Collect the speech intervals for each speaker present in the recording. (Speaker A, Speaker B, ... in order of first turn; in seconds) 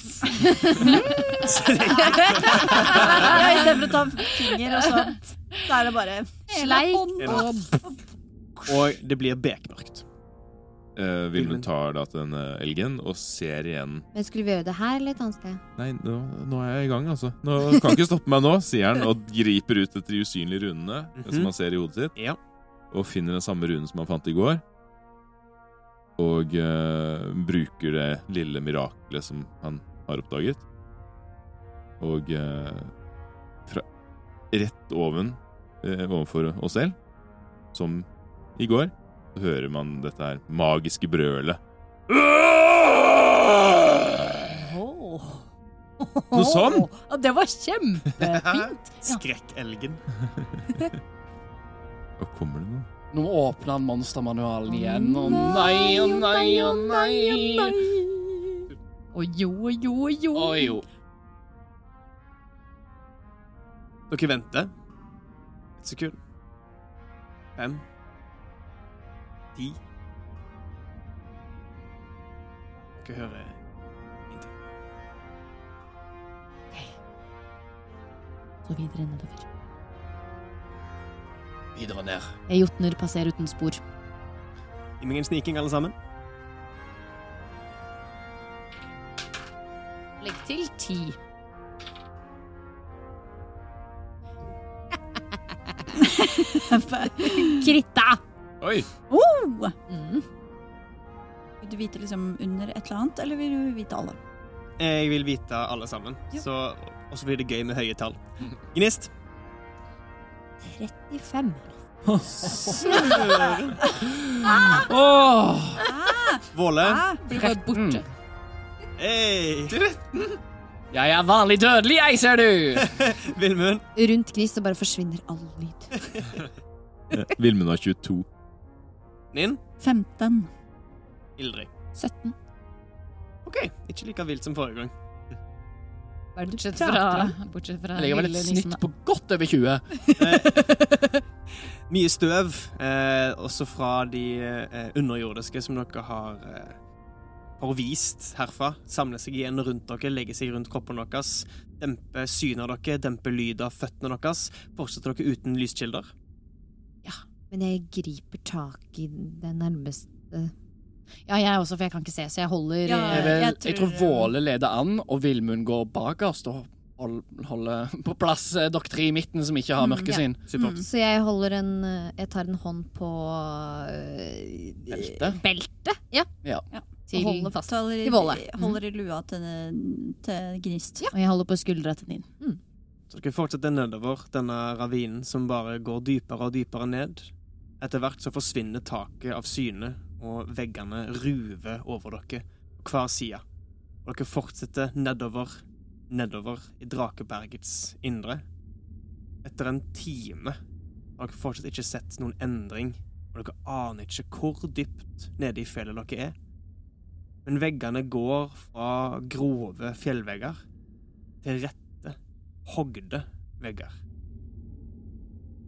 Speaker A: 0.2-5.1, 6.5-7.8, 44.5-45.4, 46.0-49.2, 54.7-58.6, 59.1-60.8, 78.6-79.5, 82.5-83.8, 90.2-91.2, 95.3-98.2, 99.9-100.2, 117.2-118.0, 131.9-132.3, 136.4-138.8, 161.3-163.3, 175.4-175.7, 177.1-177.5, 181.1-182.3
Speaker B: 0.8-1.5, 2.1-7.9, 96.0-97.7, 99.1-99.8, 101.6-104.2, 115.8-117.2, 129.8-130.5, 162.8-164.3, 169.8-170.9, 177.6-181.1
Speaker C: 1.2-3.4, 7.2-7.5, 8.7-10.0, 11.3-11.7, 21.2-21.5, 48.2-50.0, 64.1-64.7, 65.8-66.2, 67.6-67.8, 73.0-73.5, 85.0-85.9, 104.8-109.1, 112.8-113.8, 116.5-117.0, 119.0-119.8, 122.8-123.8, 129.3-129.6, 131.4-131.7, 133.4-134.9, 140.2-140.7, 141.9-146.8, 147.6-156.1, 170.5-170.8, 183.1-193.4, 194.1-198.4, 199.4-200.6, 201.2-206.3, 207.4-210.6, 211.4-213.9
Speaker D: 10.9-14.1, 15.8-22.1, 22.9-24.6, 26.2-30.6, 32.0-32.9, 34.5-37.0, 37.7-41.6, 46.3-46.9, 50.2-50.8, 52.2-52.9, 98.6-98.9, 127.1-128.3
Speaker E: 14.1-15.6, 110.7-111.8, 124.0-126.4, 136.4-137.3, 157.5-160.5, 170.8-176.3, 177.1-178.4
Speaker F: 53.1-57.8, 60.3-60.8, 81.7-82.3, 112.1-113.4, 114.0-115.8, 117.5-118.0, 119.7-120.3, 120.9-123.0, 137.9-140.7, 163.1-170.4, 174.9-175.4